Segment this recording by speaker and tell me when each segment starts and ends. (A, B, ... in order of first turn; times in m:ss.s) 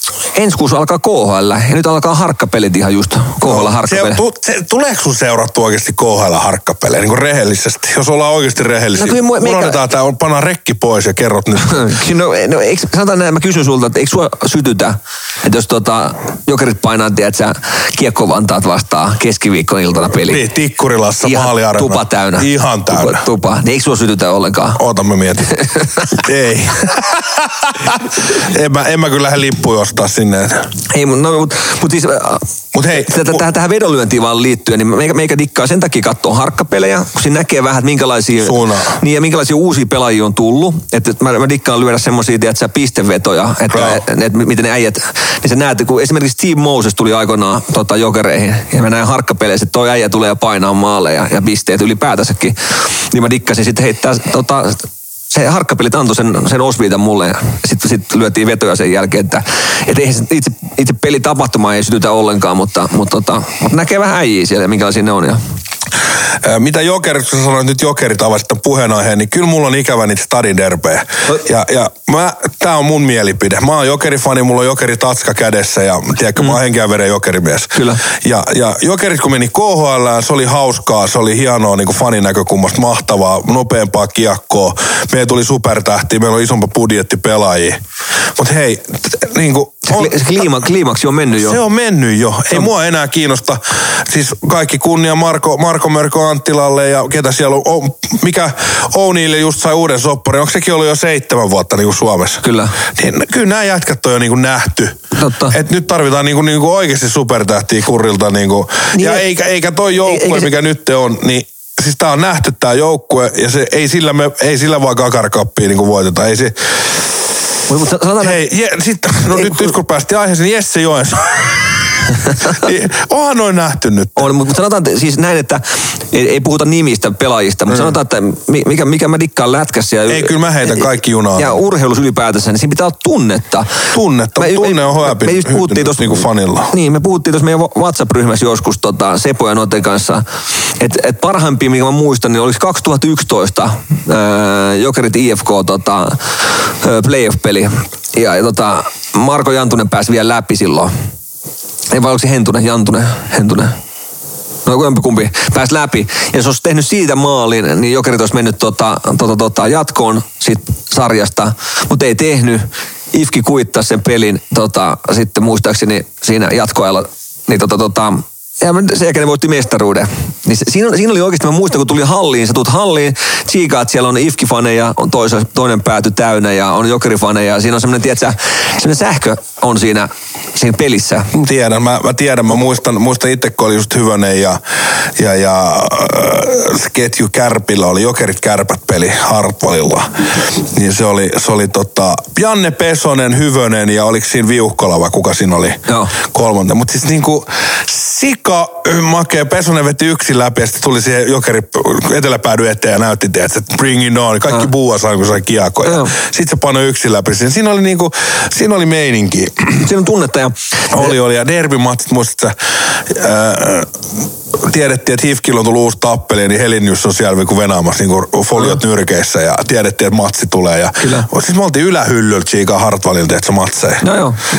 0:00.3-0:04.2 A
0:03.4-0:11.8 B
0:09.0-0:09.8 A
0:11.6-0:20.4 A
0:20.2-0:23.2 B
0:21.2-0:24.8 A
0:24.8-0:25.5 B
0:25.6-0:26.1 A
0:26.2-0:30.7 B
0:30.9-0:52.6 A
0:32.7-0:33.4 B
0:38.4-0:39.0 B
0:43.7-0:44.0 B
0:53.1-1:05.4 A
1:06.4-1:27.8 B
1:17.8-1:18.0 A
1:28.4-1:30.4 B
1:29.8-1:31.6 A
1:31.4-1:45.0 B
1:42.4-1:42.7 A
1:45.2-1:45.6 A
1:45.5-1:57.1 B
1:48.9-1:49.2 A
1:50.0-1:50.5 A
1:57.7-1:58.4 A
1:58.2-2:04.3 B
1:59.3-1:59.7 A
2:04.2-2:13.8 A
2:10.1-2:11.6 B
2:13.9-2:16.7 B
2:14.4-2:20.2 A
2:20.8-2:30.9 A
2:31.9-2:33.8 A
2:34.6-3:01.3 A
3:01.3-3:04.6 B
3:05.2-3:29.8 B
3:15.9-3:16.1 A
3:25.8-3:26.1 A
3:29.8-3:31.1 A
3:30.9-3:33.9 B
3:34.6-3:44.0 B
3:41.0-3:41.3 A
3:44.0-3:44.4 A